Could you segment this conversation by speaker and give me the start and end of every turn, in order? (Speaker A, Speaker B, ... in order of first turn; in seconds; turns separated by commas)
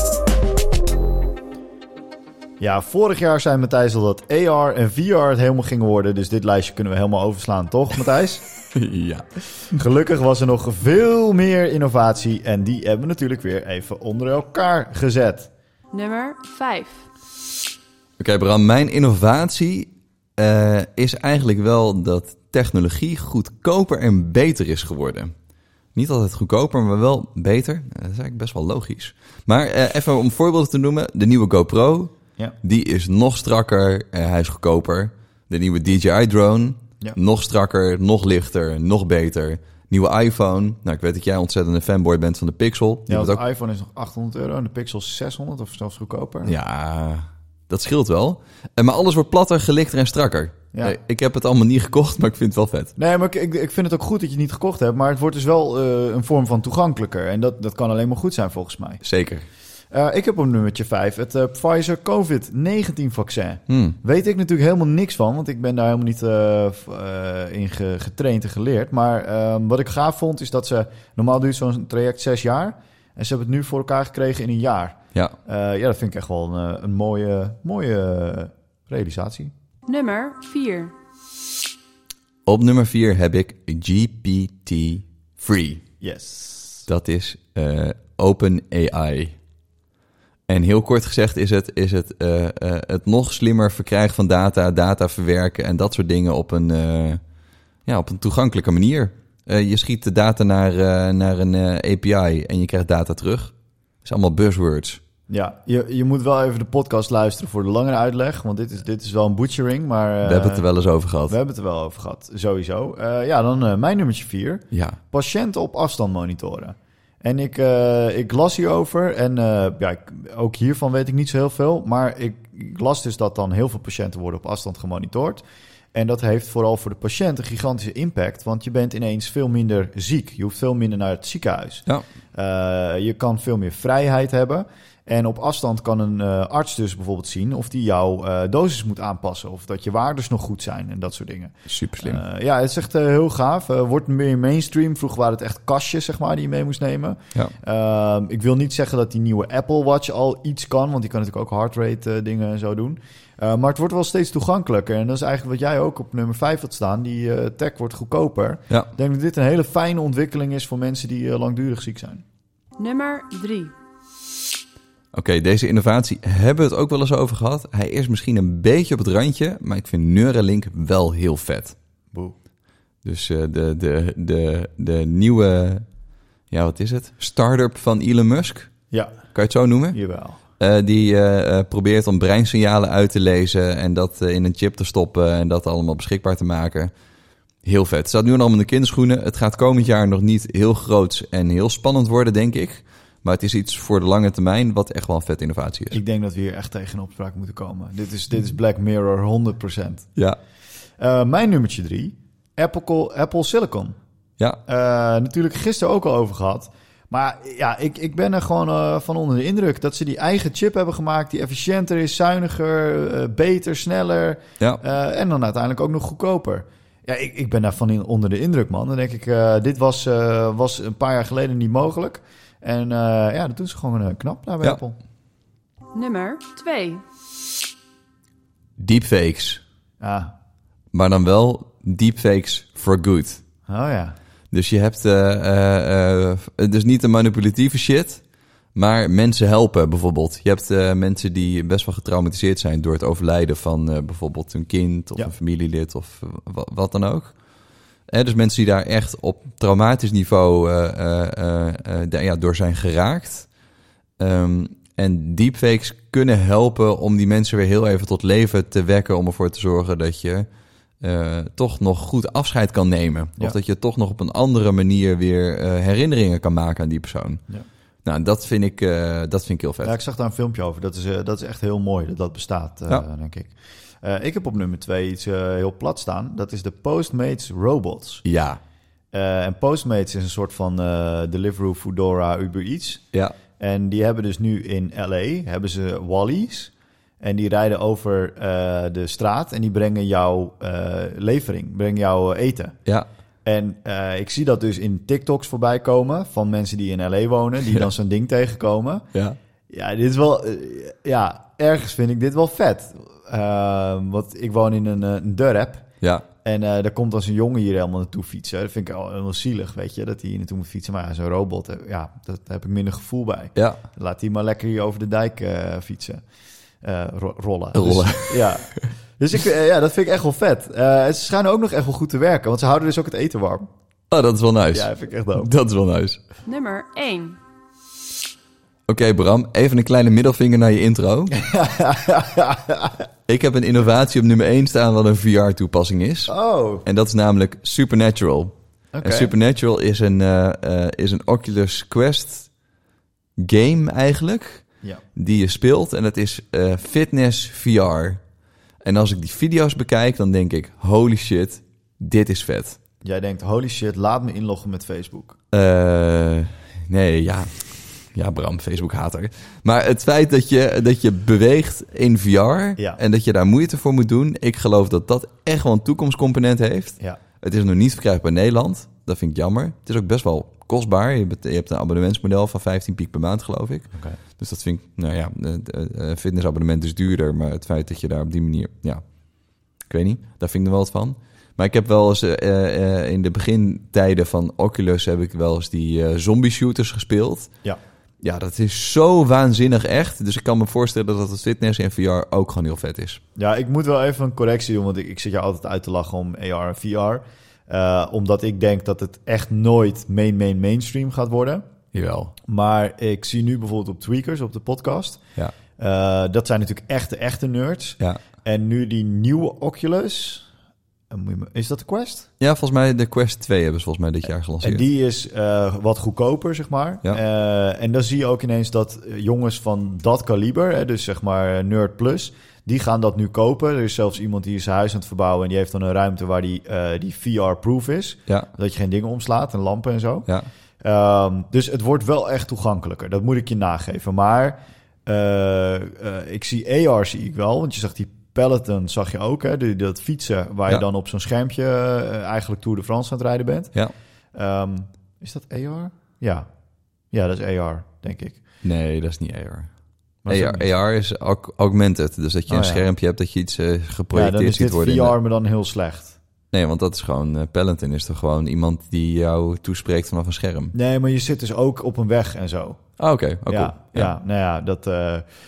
Speaker A: 2.6-8.5, Speaker B: 8.7-9.2, Speaker A: 9.7-15.5, Speaker C: 15.9-17.1, Speaker B: 18.2-25.3, Speaker B: 25.9-32.1, Speaker B: 32.6-43.4, Speaker A: 43.1-46.5, Speaker B: 46.4-52.9, Speaker A: 53.0-59.0, Speaker B: 59.0-59.5, Speaker A: 59.9-79.5, Speaker B: 63.7-64.0, Speaker C: 79.9-80.9, Speaker B: 82.5-85.8, Speaker A: 86.0-86.9, Speaker B: 86.9-89.3, Speaker B: 90.5-97.2, Speaker B: 97.9-103.5, Speaker B: 104.0-105.0, Speaker A: 105.3-110.6, Speaker B: 110.2-111.4, Speaker A: 111.3-125.4, Speaker B: 114.7-115.0, Speaker A: 125.9-162.2, Speaker B: 141.7-142.2, Speaker C: 162.8-163.7, Speaker B: 165.1-171.8, Speaker B: 173.0-175.8, Speaker B: 176.5-178.7, Speaker A: 178.9-179.2, Speaker B: 179.3-180.0, Speaker A: 179.9-180.4, Speaker B: 180.6-186.9, Speaker B: 187.6-196.0, Speaker A: 195.9-200.1, Speaker A: 201.0-203.9, Speaker A: 204.7-225.0, Speaker C: 225.9-227.0, Speaker B: 228.8-229.6, Speaker A: 230.0-230.3, Speaker B: 230.9-233.4, Speaker A: 233.7-234.2, Speaker B: 234.5-238.2, Speaker B: 238.8-247.3, Speaker B: 248.1-253.5, Speaker B: 254.2-260.5, Speaker B: 261.0-267.4, Speaker B: 268.1-270.0, Speaker A: 269.8-278.2, Speaker B: 278.2-278.6, Speaker A: 279.1-283.0, Speaker A: 283.6-292.8, Speaker A: 293.4-299.1, Speaker A: 299.7-305.9, Speaker A: 306.4-316.2, Speaker B: 313.6-313.8, Speaker A: 316.8-323.7, Speaker B: 317.8-318.6, Speaker B: 324.1-326.2, Speaker A: 324.7-325.5, Speaker C: 326.5-327.4, Speaker B: 328.9-331.4, Speaker A: 331.4-333.0, Speaker B: 333.3-336.3, Speaker A: 336.3-336.9, Speaker B: 336.9-342.5, Speaker A: 338.9-339.3, Speaker B: 343.4-344.6, Speaker B: 345.2-348.2, Speaker B: 348.8-352.8, Speaker A: 353.0-355.4, Speaker B: 355.5-379.0, Speaker A: 373.9-374.2, Speaker B: 379.9-387.5, Speaker B: 388.2-393.2, Speaker A: 393.4-401.7, Speaker B: 401.9-402.3, Speaker A: 402.5-405.2, Speaker A: 405.8-410.5, Speaker A: 411.1-412.3, Speaker B: 412.4-414.9, Speaker A: 414.6-430.3, Speaker A: 430.8-443.8, Speaker A: 444.4-446.5, Speaker A: 447.1-448.4, Speaker B: 448.6-449.7, Speaker A: 450.2-450.7, Speaker B: 450.3-455.2, Speaker A: 452.5-452.9, Speaker A: 454.1-456.2, Speaker B: 456.5-460.7, Speaker A: 460.7-462.8, Speaker B: 463.0-464.1, Speaker A: 463.5-465.3